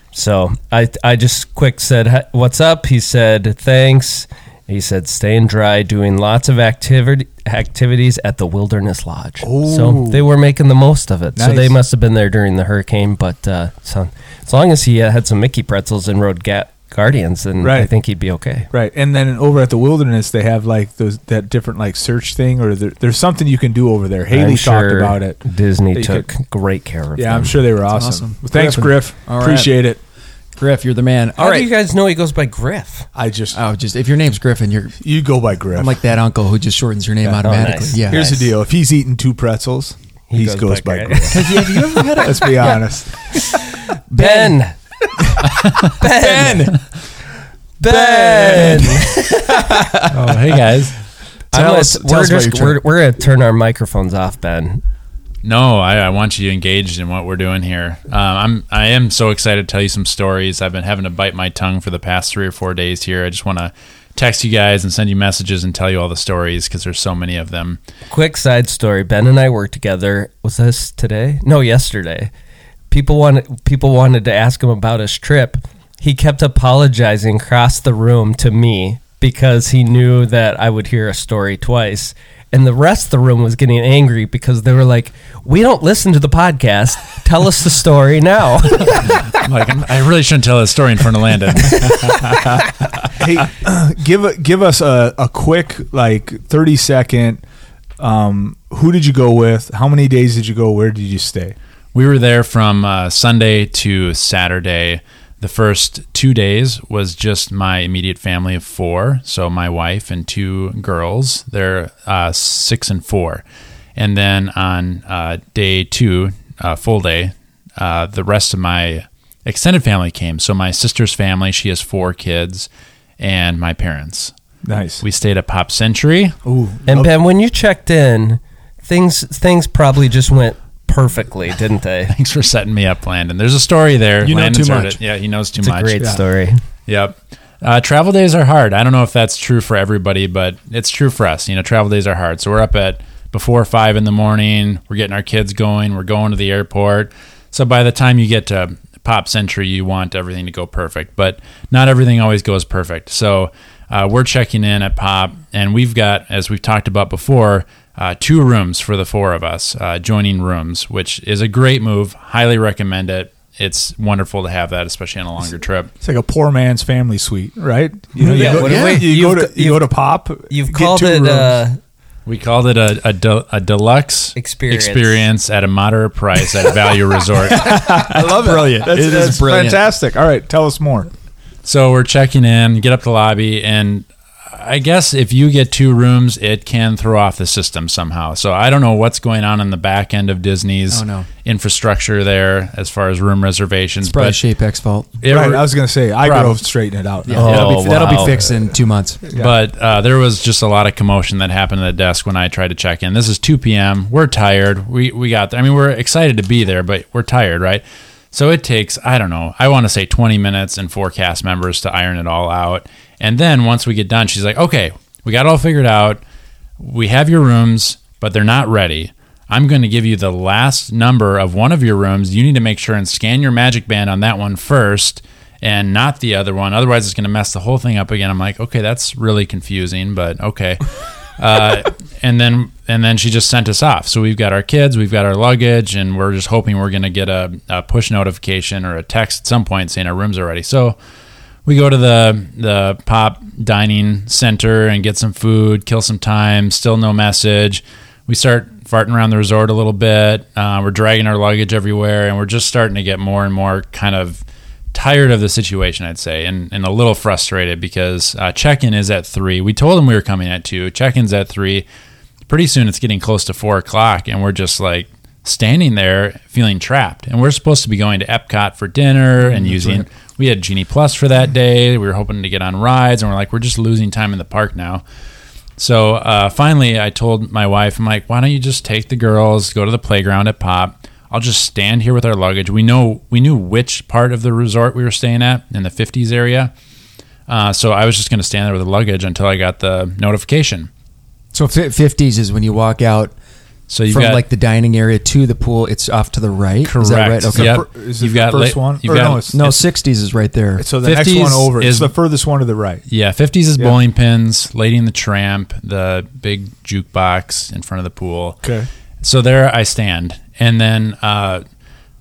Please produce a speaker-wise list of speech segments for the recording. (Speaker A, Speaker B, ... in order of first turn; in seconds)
Speaker A: 0.1-18.7, 24.3-27.7, 31.4-33.1, 37.4-38.0, 40.3-41.5, 44.1-44.7, 45.9-46.7, 47.8-49.8, 51.5-54.8, 68.1-72.3, 72.9-89.1, 91.6-92.5, 126.9-132.1, 135.6-136.6, 168.2-169.9, 170.5-171.8, 174.3-175.2, 197.3-198.4
Speaker B: 9.4-10.2, 11.3-11.8, 17.6-17.9, 18.7-25.4, 25.9-26.3, 27.1-30.0, 33.1-33.6, 35.0-35.9, 38.0-43.1, 93.2-97.4, 98.0-101.5, 124.6-125.0, 126.4-127.1, 166.0-171.6, 177.5-181.1, 195.3-198.3, 297.5-299.6, 300.8-303.0, 308.6-308.9
Speaker C: 27.9-29.7, 30.6-31.7, 33.5-35.0, 35.7-38.5, 41.3-42.8, 44.1-44.6, 45.2-46.8, 47.8-50.4, 51.5-52.8, 134.2-135.0, 168.2-169.2, 177.7-179.8, 190.9-191.3, 194.0-195.2, 197.2-199.2, 269.5-270.0, 291.5-293.3, 294.1-297.7, 299.2-300.9
Speaker D: 50.0-50.9, 55.4-67.8, 88.9-92.2, 101.9-113.4, 114.0-122.7, 123.2-124.3, 125.0-126.3, 132.1-136.2, 136.9-165.9, 172.2-177.9, 181.6-194.4, 195.2-196.6, 199.3-216.2, 216.8-230.8, 231.4-240.9, 241.7-261.9, 262.5-275.0, 275.8-286.7, 287.5-290.9, 293.9-294.4, 296.8-299.8, 301.0-302.1, 303.1-308.6, 309.2-311.6